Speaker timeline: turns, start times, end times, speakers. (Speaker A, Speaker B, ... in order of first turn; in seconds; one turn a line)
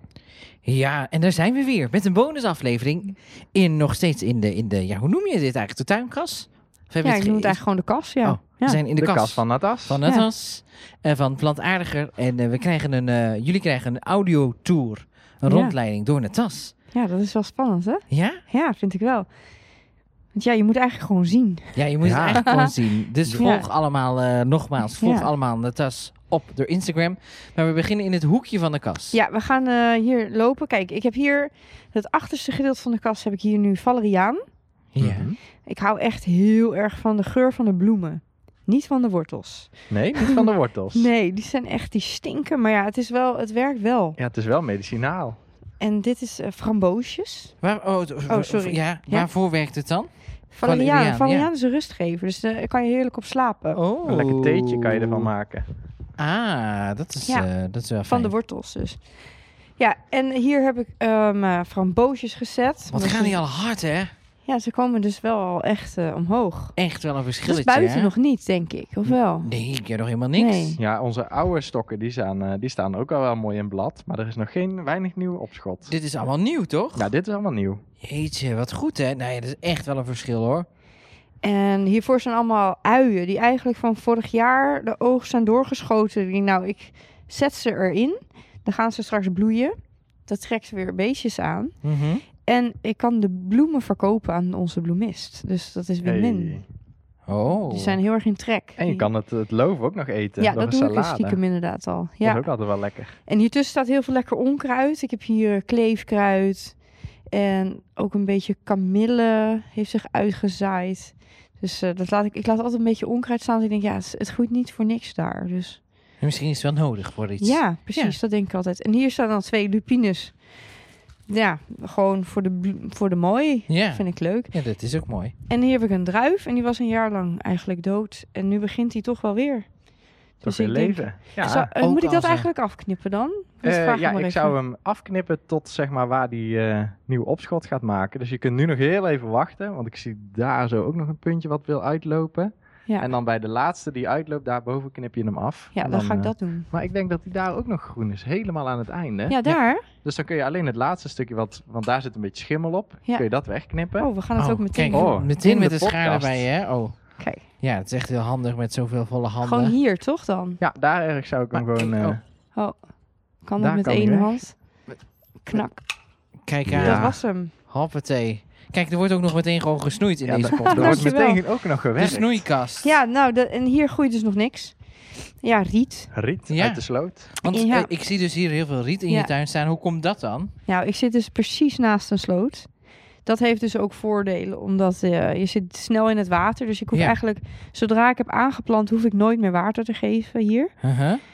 Speaker A: 0.6-16.7
Speaker B: 7.0-8.8
Speaker C: 8.9-10.0
Speaker B: 10.0-10.3
Speaker B: 15.5-15.8
Speaker B: 16.9-19.3
Speaker A: 18.1-18.4
Speaker B: 20.3-21.8
Speaker A: 21.8-29.2
Speaker C: 22.0-22.5
Speaker B: 22.3-22.7
Speaker B: 23.3-23.7
Speaker B: 25.0-25.3
Speaker B: 29.1-34.4
Speaker A: 34.9-35.3
Speaker C: 35.0-35.4
Speaker B: 35.6-44.2
Speaker C: 39.9-41.1
Speaker C: 44.2-45.4
Speaker B: 45.8-47.5
Speaker A: 47.6-51.5
Speaker B: 48.3-49.3
Speaker B: 50.5-53.8
Speaker A: 53.8-55.3
Speaker C: 54.0-55.7
Speaker A: 56.2-58.3
Speaker B: 58.0-59.1
Speaker B: 59.8-63.4
Speaker A: 62.9-64.1
Speaker B: 64.5-66.8
Speaker A: 66.8-68.1
Speaker B: 67.4-69.5
Speaker A: 69.1-70.8
Speaker B: 70.3-70.8
Speaker C: 70.8-75.9
Speaker A: 75.9-77.1
Speaker C: 77.0-77.8
Speaker A: 78.0-80.7
Speaker B: 81.4-89.7
Speaker B: 90.2-91.8
Speaker A: 91.8-92.2
Speaker B: 92.4-96.6
Speaker C: 96.0-96.7
Speaker A: 97.3-98.0
Speaker B: 97.7-99.1
Speaker C: 98.8-101.4
Speaker B: 100.4-102.7
Speaker C: 102.2-103.2
Speaker B: 103.2-115.8
Speaker A: 116.2-118.2
Speaker B: 117.4-120.4
Speaker B: 121.3-124.5
Speaker A: 123.7-125.3
Speaker B: 125.5-129.7
Speaker B: 130.4-134.6
Speaker C: 130.4-131.7
Speaker A: 131.8-132.5
Speaker C: 133.6-154.1
Speaker B: 145.7-146.7
Speaker B: 149.3-149.9
Speaker B: 153.9-155.2
Speaker A: 154.4-159.8
Speaker C: 154.9-156.5
Speaker B: 157.2-157.4
Speaker B: 159.4-160.6
Speaker C: 160.6-162.2
Speaker A: 161.5-162.2
Speaker B: 162.5-164.6
Speaker C: 163.6-164.4
Speaker B: 165.4-165.9
Speaker A: 166.5-171.1
Speaker C: 166.7-167.2
Speaker B: 166.8-167.5
Speaker C: 170.2-172.4
Speaker B: 170.6-171.4
Speaker A: 172.0-172.9
Speaker B: 172.8-176.1
Speaker C: 176.1-177.3
Speaker A: 176.5-180.5
Speaker B: 177.4-177.9
Speaker B: 180.7-190.8
Speaker A: 186.9-187.2
Speaker A: 190.8-191.2